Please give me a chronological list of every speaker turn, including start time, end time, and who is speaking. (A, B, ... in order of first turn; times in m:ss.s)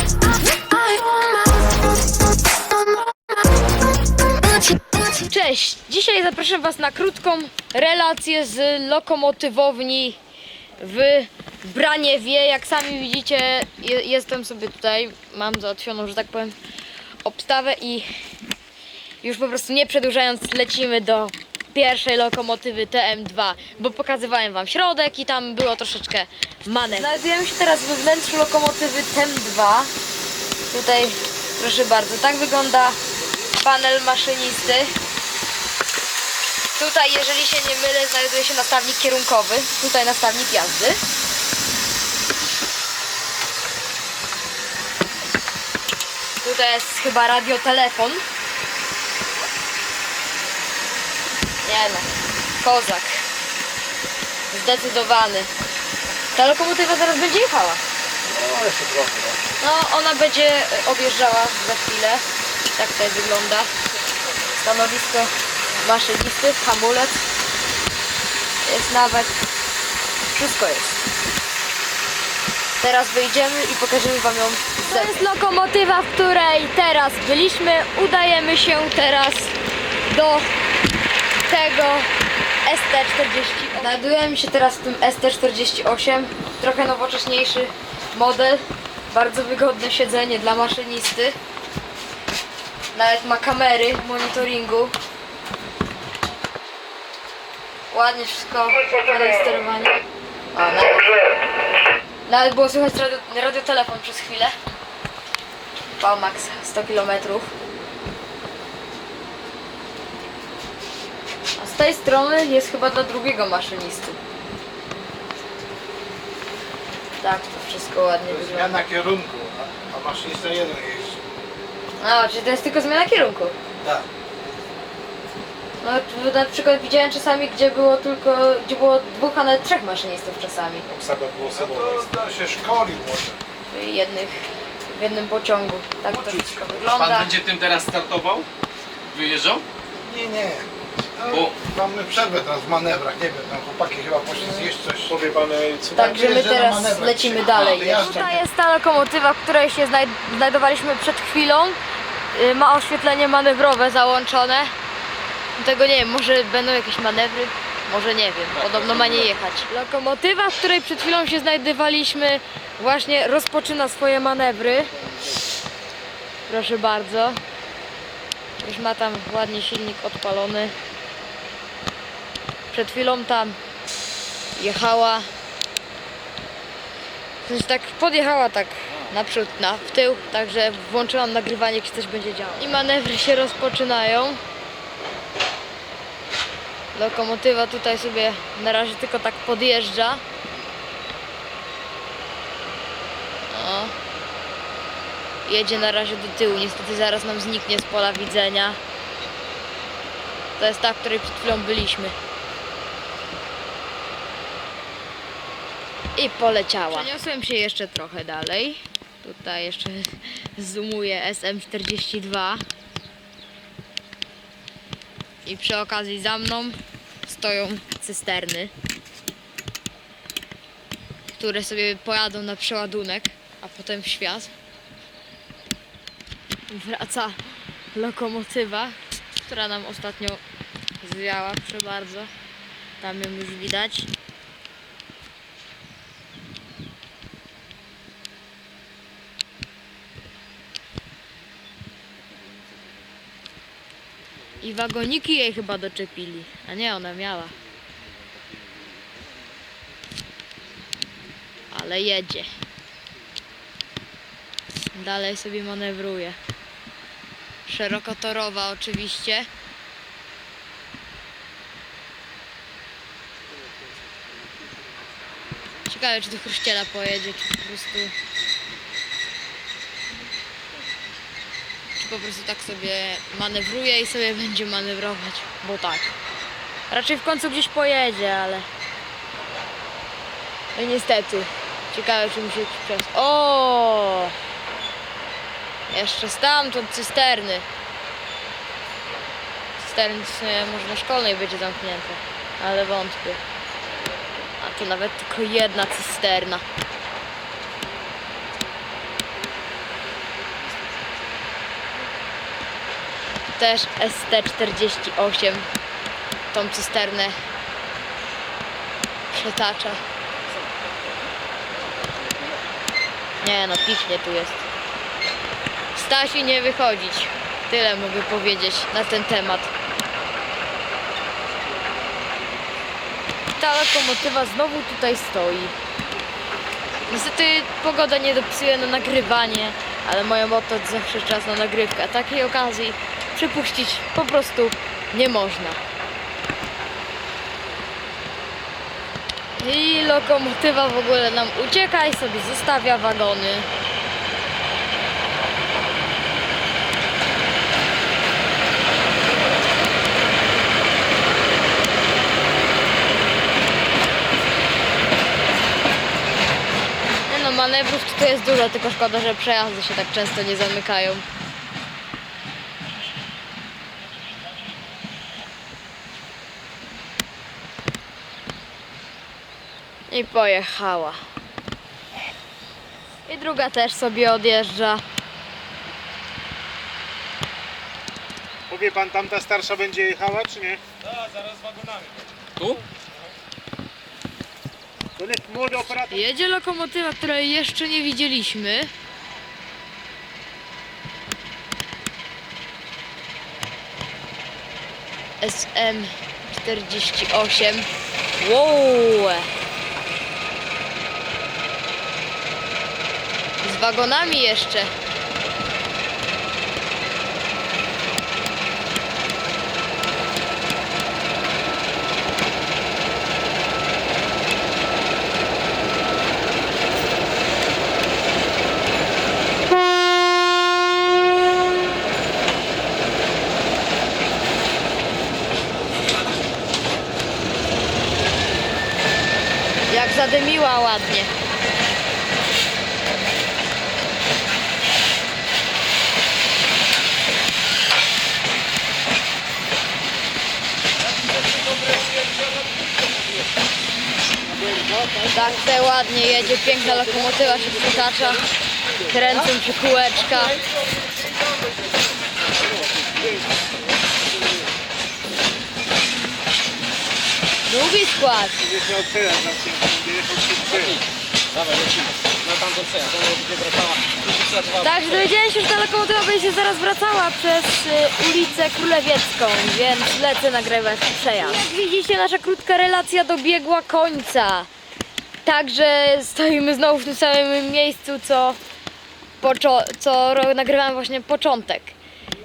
0:00.5-0:01.8 A
0:02.7-0:03.2 A
0:05.1-0:10.2 A
0:10.8-0:16.6 A
0:17.2-0:18.1 A
0:19.2-0:29.9 A
0:30.7-0:33.0 A
0:33.6-0:35.0 A
0:36.8-0:41.0 A
0:46.4-0:48.2 A
0:51.6-0:52.1 A
0:52.6-0:53.2 A
0:54.5-0:55.5 A
0:56.3-0:57.8 A
0:58.3-0:59.4 B
0:59.6-1:02.2 A
1:02.7-1:03.7 A
1:04.6-1:07.2 A
1:08.6-1:09.4 A
1:10.3-1:11.0 A
1:12.8-1:19.5 A
1:20.1-1:20.5 A
1:21.5-1:22.1 A
1:22.7-1:31.4 A
1:33.0-1:34.9 A
1:37.9-1:40.0 A
1:40.5-1:41.1 A
1:42.3-1:44.6 A
1:46.0-1:47.5 A
1:51.6-1:54.2 A
1:57.2-1:58.8 A
1:58.3-2:01.2 B
2:02.0-2:03.5 A
2:03.8-2:04.1 B
2:05.8-2:10.9 A
2:10.9-2:11.6 C
2:11.5-2:13.4 B
2:13.7-2:17.3 A
2:16.3-2:18.5 D
2:19.1-2:19.6 D
2:20.0-2:25.2 B
2:21.3-2:21.6 D
2:24.4-2:24.6 A
2:25.3-2:26.1 C
2:25.4-2:25.8 D
2:26.0-2:28.4 B
2:26.0-2:31.8 A
2:32.3-2:34.7 A
2:35.6-2:45.0 A
2:46.5-2:47.4 A
2:48.6-2:50.7 A
2:52.7-2:53.6 A
2:54.6-2:55.3 A
2:57.4-3:04.4 A
3:07.0-3:10.2 A
3:13.5-3:13.9 A
3:15.5-3:18.8 A
3:20.6-3:22.2 A
3:26.2-3:32.6 A
3:35.4-3:38.7 A
3:41.4-3:44.5 A
3:46.7-3:47.4 A
3:47.9-3:50.4 A
3:51.0-3:52.3 A
3:53.0-3:54.1 A
4:04.6-4:07.6 A
4:11.7-4:12.5 A
4:14.9-4:16.4 A
4:17.7-4:19.5 A
4:25.9-4:28.1 A
4:32.0-4:36.1 A
4:36.9-4:38.7 A
4:40.8-4:44.4 A
4:45.9-4:47.6 A
4:49.8-4:53.4 A
4:54.6-4:56.6 A
5:03.6-5:05.7 A
5:06.5-5:07.4 A
5:09.3-5:10.0 A
5:13.4-5:14.6 A
5:16.0-5:19.7 A
5:21.8-5:22.3 C
5:23.6-5:25.7 A
5:27.1-5:35.8 A
5:39.6-5:43.7 A
5:57.3-6:01.2 A
6:10.1-6:11.2 A
6:13.3-6:15.0 A
6:18.7-6:20.8 C
6:21.5-6:22.0 D
6:25.2-6:26.2 C
6:26.1-6:28.9 A
6:35.4-6:37.9 A
6:38.4-6:39.5 A
6:43.6-6:44.9 A
7:09.9-7:11.3 A
7:24.5-7:25.3 C
7:25.3-7:28.5 A
7:29.0-7:30.6 A
7:37.6-7:38.6 A
7:38.6-7:41.0 C
7:40.7-7:45.2 D
7:44.8-7:54.7 A
7:55.4-7:58.6 A
7:59.4-8:02.0 A